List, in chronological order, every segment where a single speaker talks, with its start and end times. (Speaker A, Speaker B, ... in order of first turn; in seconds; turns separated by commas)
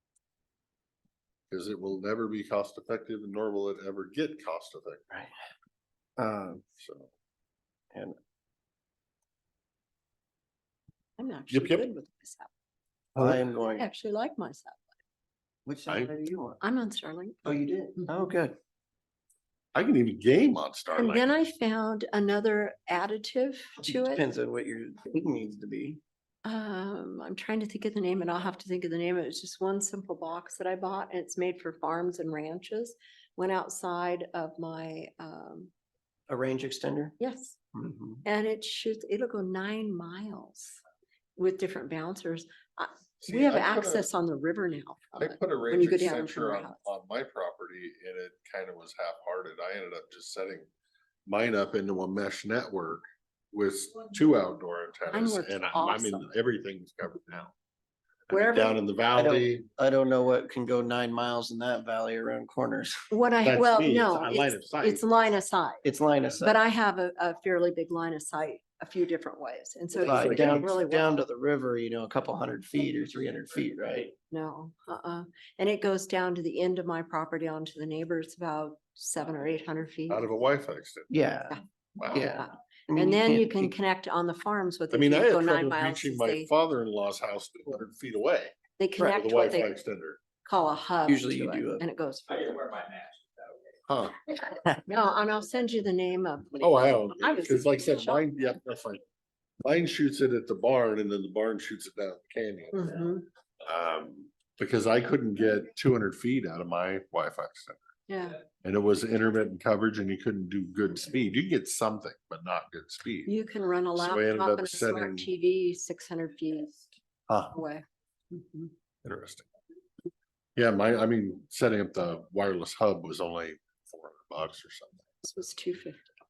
Speaker A: 1.5-5.0, Speaker B: 6.2-6.6, Speaker A: 6.8-7.1, Speaker C: 11.2-12.5, Speaker A: 11.5-11.9, Speaker B: 13.2-13.9, Speaker C: 13.8-14.8, Speaker B: 15.7-16.6, Speaker C: 16.6-17.4, Speaker B: 17.4-18.6, Speaker A: 19.7-21.3, Speaker C: 20.9-24.2, Speaker B: 23.8-26.0, Speaker C: 26.4-35.7, Speaker B: 36.3-37.1, Speaker C: 37.2-37.6, Speaker B: 37.7-38.2, Speaker C: 38.2-40.8, Speaker C: 41.4-46.8, Speaker A: 43.2-44.0, Speaker A: 45.2-50.7, Speaker A: 51.2-57.5, Speaker C: 55.1-56.3, Speaker A: 58.3-59.6, Speaker C: 58.3-58.8, Speaker B: 59.1-63.0, Speaker C: 63.1-65.8, Speaker A: 63.4-65.0, Speaker B: 65.8-66.6, Speaker C: 66.4-71.2, Speaker A: 70.0-70.7, Speaker B: 70.0-74.1, Speaker C: 74.3-80.2, Speaker A: 80.1-81.1, Speaker B: 81.1-81.6, Speaker A: 82.0-82.4, Speaker B: 82.1-83.7, Speaker C: 82.1-86.5, Speaker A: 84.9-90.2, Speaker C: 88.8-89.7, Speaker C: 90.4-93.0, Speaker B: 91.0-91.8, Speaker A: 93.9-94.2, Speaker C: 94.7-98.2, Speaker A: 96.6-99.0, Speaker A: 99.6-102.9, Speaker C: 102.7-103.2, Speaker A: 103.6-107.8, Speaker C: 108.1-108.4, Speaker A: 108.6-113.3, Speaker C: 113.3-116.9, Speaker A: 114.0-115.3, Speaker A: 117.3-117.5, Speaker C: 117.5-118.7, Speaker A: 119.0-119.5, Speaker A: 120.5-125.0, Speaker C: 125.2-126.1